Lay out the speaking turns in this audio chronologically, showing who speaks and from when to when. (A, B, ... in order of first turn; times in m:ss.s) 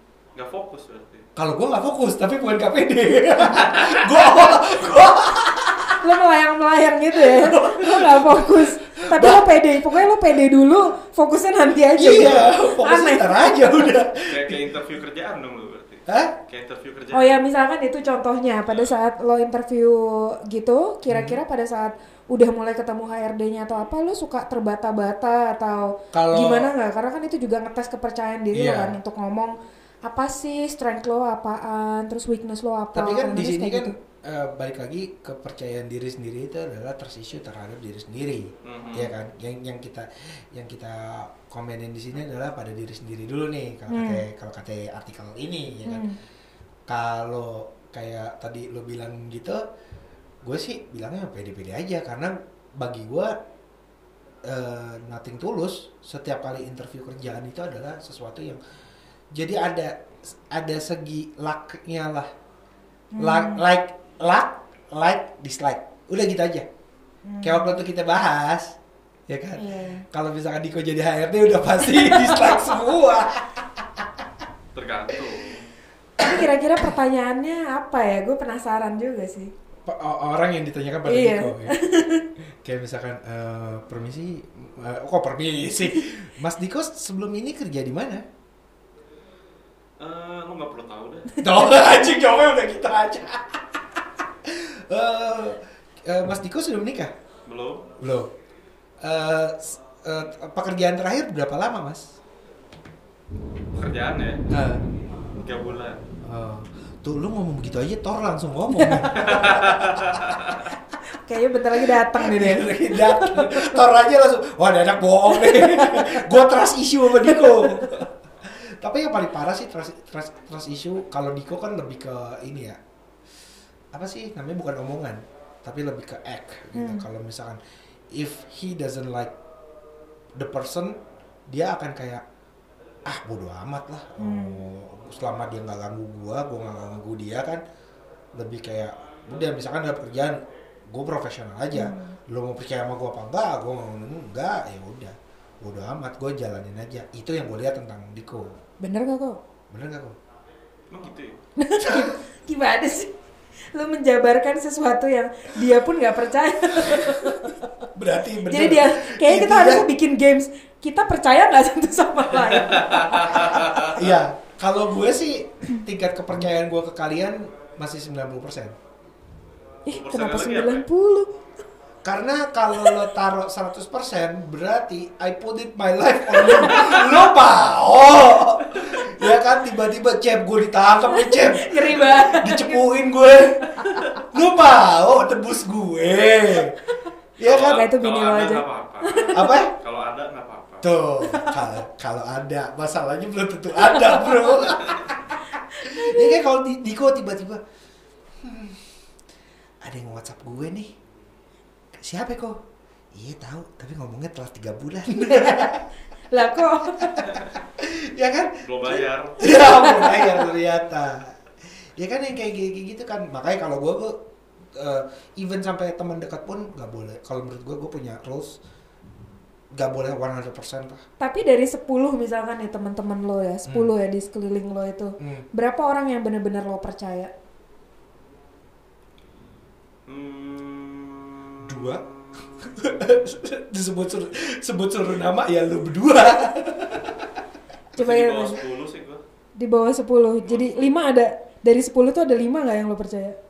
0:00.4-0:01.2 A
0:01.4-0:06.0 B
0:03.7-0:04.0 A
0:06.0-0:13.6 C
0:07.1-0:10.2 B
0:12.0-0:14.7 B
0:14.3-0:17.4 A
0:16.1-0:16.4 B
0:17.1-0:33.9 C
0:21.1-0:21.4 B
0:26.1-0:26.7 B
0:28.5-0:29.0 B
0:32.9-0:46.1 B
0:38.6-0:39.1 A
0:43.9-0:44.3 C
0:45.8-0:46.2 C
0:46.9-0:49.6 B
0:50.4-0:53.4 B
0:54.4-0:58.6 B
0:59.3-1:02.3 B
1:03.1-1:03.6 C
1:03.2-1:06.7 B
1:07.3-1:07.8 C
1:07.4-1:14.3 B
1:09.6-1:10.0 C
1:11.8-1:12.7 C
1:14.8-1:15.6 A
1:16.2-1:16.5 B
1:16.2-1:19.5 C
1:19.8-1:21.8 B
1:21.1-1:22.3 C
1:22.4-1:28.2 B
1:30.0-1:31.4 A
1:31.4-1:37.1 B
1:37.5-1:37.9 A
1:38.0-1:38.3 B
1:39.0-1:42.2 B
1:43.8-1:44.5 A
1:44.5-1:44.8 B
1:45.4-1:46.0 A
1:46.2-1:50.2 B
1:48.7-1:49.1 C
1:49.1-1:50.7 A
1:51.1-1:53.8 C
1:51.7-2:02.8 B
1:55.3-1:56.4 C
1:57.1-1:58.0 C
2:03.9-2:07.6 B
2:06.7-2:07.1 C
2:08.1-2:09.4 B
2:10.4-2:12.2 B
2:13.1-2:17.6 B
2:14.2-2:14.6 C
2:18.4-2:28.6 B
2:21.7-2:22.2 C
2:28.8-2:29.4 C
2:29.7-2:30.2 B
2:30.9-2:31.4 A
2:31.6-2:33.1 C
2:31.8-2:32.1 B
2:33.7-2:37.7 C
2:36.8-2:39.9 B
2:38.5-2:43.8 C
2:42.6-2:44.2 A
2:43.8-2:48.8 B
2:49.9-2:51.3 C
2:49.9-2:50.8 A
2:52.0-3:03.6 B
2:56.3-2:57.0 C
3:01.1-3:02.8 C
3:03.7-3:04.1 C
3:04.3-3:06.8 B
3:06.8-3:07.1 C
3:07.4-3:07.8 B
3:07.4-3:10.9 A
3:07.7-3:09.6 C
3:09.3-3:09.7 B
3:10.8-3:17.6 B
3:11.2-3:11.6 C
3:13.8-3:14.6 C
3:15.7-3:16.4 C
3:18.4-3:18.8 B
3:19.8-3:20.9 B
3:22.0-3:22.6 B
3:23.1-3:25.8 B
3:25.2-3:25.8 C
3:26.3-3:27.3 C
3:27.0-3:34.2 B
3:28.6-3:29.4 A
3:29.4-3:30.4 C
3:34.7-3:38.6 B
3:39.8-3:41.0 B
3:41.2-3:47.3 C
3:43.7-3:43.9 B
3:45.2-3:45.5 B
3:50.1-3:52.9 A
3:51.6-3:57.4 B
3:58.0-3:59.2 A
3:58.0-3:58.6 C
3:59.6-4:03.4 C
4:00.4-4:00.9 A